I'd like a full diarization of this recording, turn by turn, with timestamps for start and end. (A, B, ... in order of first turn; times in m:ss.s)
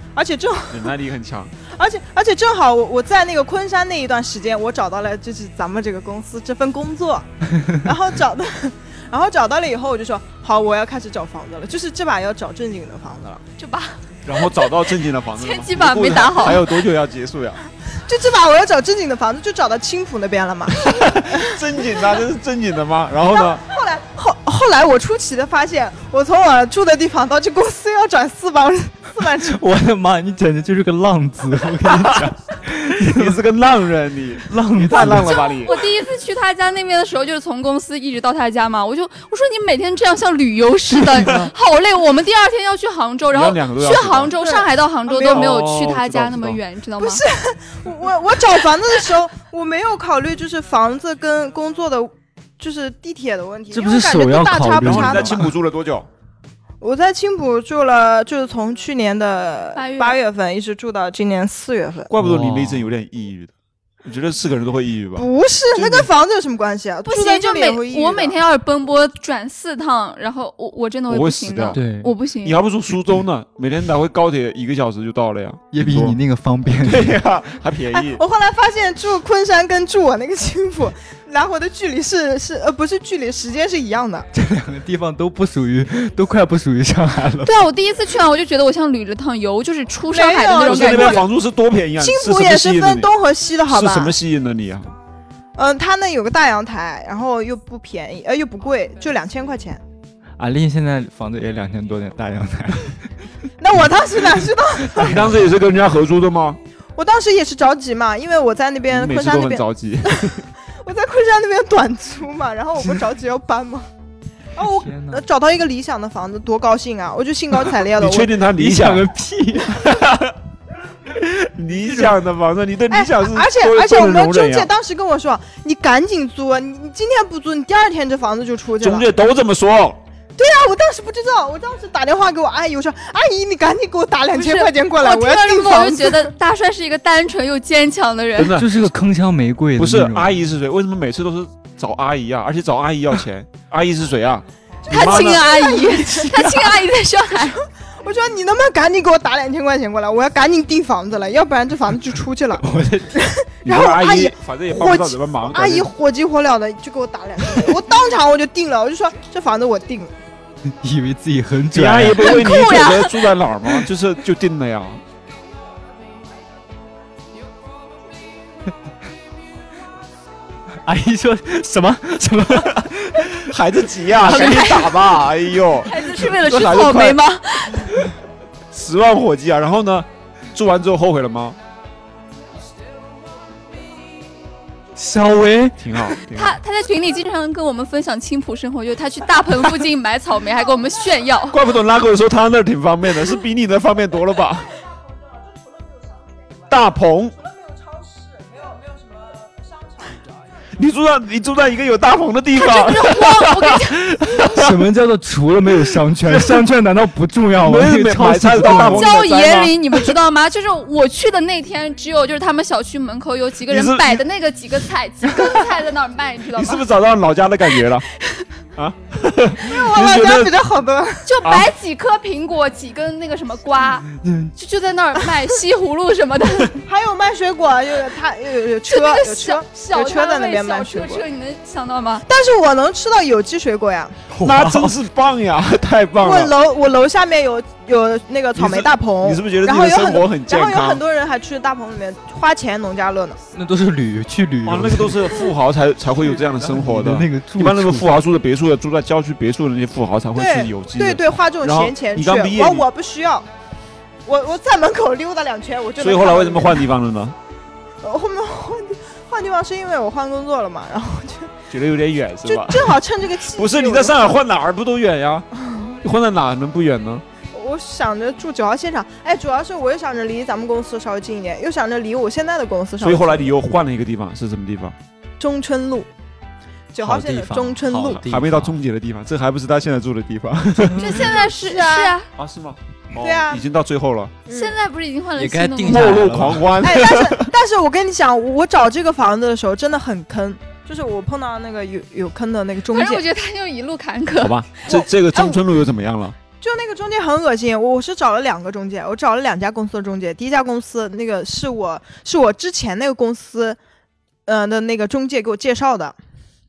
0:00.1-0:00.9 A
0:00.7-0:01.6 B
0:01.6-0:13.4 A
0:13.6-0:16.8 C
0:14.2-0:17.6 B
0:17.9-0:21.8 A
0:20.7-0:23.7 B
0:23.3-0:29.6 A
0:29.3-0:33.4 D
0:31.9-0:32.3 B
0:33.0-0:35.8 B
0:34.5-0:35.5 D
0:35.0-0:47.2 C
0:41.2-0:41.4 B
0:43.3-0:44.3 B
0:44.4-0:45.5 A
0:45.1-0:46.6 B
0:47.0-0:55.5 A
0:53.7-0:55.5 D
0:54.8-0:56.1 B
0:56.8-1:02.1 A
0:59.7-1:00.2 C
1:02.1-1:03.5 B
1:02.2-1:02.9 D
1:04.0-1:06.1 B
1:05.1-1:08.4 A
1:07.0-1:12.6 C
1:11.1-1:11.8 B
1:11.7-1:12.1 D
1:12.4-1:16.2 B
1:15.7-1:17.2 D
1:16.8-1:18.2 B
1:17.9-1:24.3 A
1:24.3-1:27.5 D
1:27.4-1:31.3 C
1:30.1-1:31.3 A
1:30.6-1:33.1 B
1:32.0-1:34.2 A
1:33.7-1:34.9 B
1:35.6-1:39.8 A
1:40.4-1:43.2 D
1:43.6-1:45.3 A
1:45.0-1:46.6 B
1:45.0-1:45.3 D
1:47.0-1:53.9 A
1:48.9-1:50.4 B
1:54.5-1:58.4 A
1:54.6-1:55.2 D
1:57.9-1:59.1 B
1:58.5-1:59.8 D
1:59.6-2:00.4 B
2:01.0-2:04.7 B
2:01.8-2:02.1 D
2:02.9-2:09.1 A
2:08.8-2:10.0 B
2:10.4-2:16.3 A
2:14.3-2:18.6 C
2:18.4-2:18.8 B
2:18.6-2:20.4 D
2:19.8-2:25.4 B
2:24.8-2:26.8 A
2:24.9-2:27.6 C
2:27.3-2:40.1 A
2:32.6-2:33.3 D
2:33.6-2:35.9 B
2:40.7-2:42.5 D
2:41.7-2:45.0 B
2:42.2-2:43.8 C
2:50.8-2:53.4 D
2:53.3-2:57.2 B
2:54.1-2:58.1 C
2:58.7-3:01.6 B
3:04.9-3:06.1 D
3:05.8-3:06.6 B
3:06.3-3:11.6 C
3:11.5-3:14.8 B
3:16.7-3:17.4 B
3:17.9-3:20.2 A
3:20.8-3:24.8 B
3:22.5-3:24.0 C
3:24.4-3:29.1 D
3:26.2-3:26.6 B
3:27.6-3:30.1 B
3:28.6-3:36.9 C
3:33.7-3:34.2 B
3:35.3-3:35.6 B
3:36.5-3:38.1 B
3:37.7-3:38.4 C
3:38.8-3:40.5 B
3:39.6-3:41.3 A
3:41.2-3:46.8 C
3:41.4-3:41.7 B
3:44.1-3:44.5 D
3:46.8-3:51.2 A
3:48.9-3:52.2 C
3:52.3-3:54.2 A
3:54.3-3:55.0 D
3:54.4-3:56.5 B
3:56.2-4:03.4 A
3:58.5-4:01.0 B
4:03.5-4:05.4 D
4:04.6-4:12.8 B
4:06.3-4:08.1 D
4:10.3-4:13.5 A
4:14.2-4:16.9 A
4:16.0-4:17.4 B
4:18.0-4:21.5 A
4:21.7-4:25.5 B
4:22.4-4:24.4 A
4:26.0-4:27.2 B
4:27.5-4:33.5 A
4:33.0-4:35.0 B
4:35.4-4:36.1 A
4:36.9-4:38.2 A
4:37.0-4:38.8 D
4:38.2-4:41.4 B
4:40.9-4:42.3 C
4:41.2-4:42.2 A
4:42.3-4:44.4 B
4:43.2-4:43.6 A
4:44.4-4:44.8 A
4:44.5-4:46.3 C
4:45.4-4:46.7 D
4:45.8-4:47.5 B
4:46.8-4:53.2 A
4:52.9-4:54.8 C
4:54.4-4:56.4 B
4:54.9-4:55.6 A
4:56.6-5:03.8 A
5:04.4-5:06.2 A